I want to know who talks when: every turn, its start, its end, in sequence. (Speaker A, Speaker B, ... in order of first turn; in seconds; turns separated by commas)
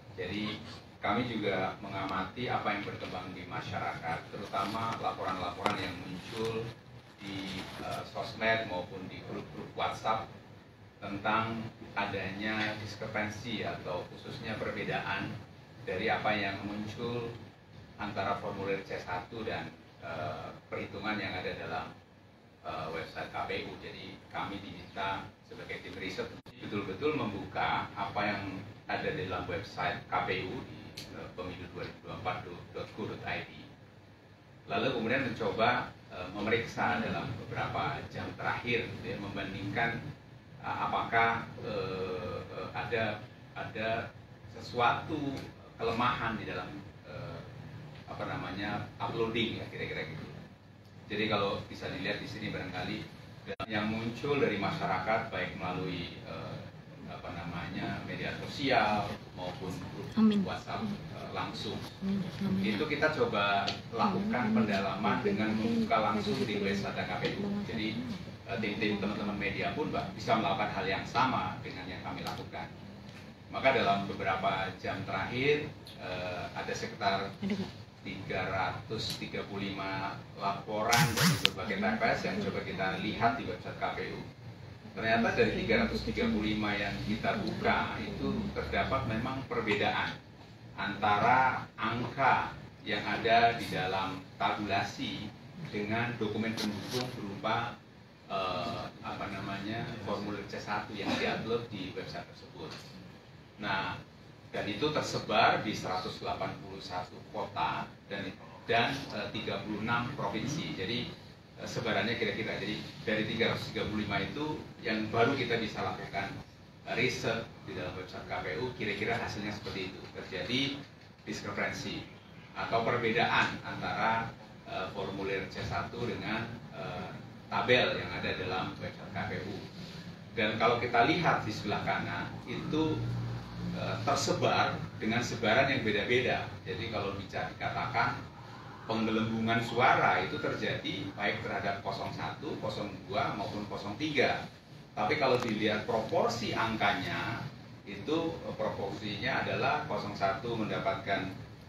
Speaker A: 0.2-0.5, Speaker A: 1.0-6.6, Speaker A: 7.2-10.3, Speaker A: 11.0-15.3, Speaker A: 15.8-17.4, Speaker A: 18.0-21.9, Speaker A: 22.6-33.6, Speaker A: 34.7-40.0, Speaker A: 40.6-47.5, Speaker A: 48.1-50.4, Speaker A: 51.1-61.9, Speaker B: 62.0-62.8, Speaker A: 62.6-72.7, Speaker B: 64.0-69.7, Speaker A: 73.5-77.3, Speaker B: 77.4-77.7, Speaker A: 78.0-84.2, Speaker B: 81.6-83.4, Speaker B: 84.9-86.5, Speaker A: 85.0-90.2, Speaker B: 87.0-88.5, Speaker A: 90.8-97.7, Speaker A: 98.3-102.8, Speaker A: 103.6-104.0, Speaker A: 104.5-111.1, Speaker A: 111.6-116.3, Speaker A: 116.9-120.7, Speaker A: 121.2-122.0, Speaker A: 122.6-129.6, Speaker A: 130.3-133.0, Speaker A: 133.7-138.2, Speaker A: 138.9-144.4, Speaker A: 144.9-151.3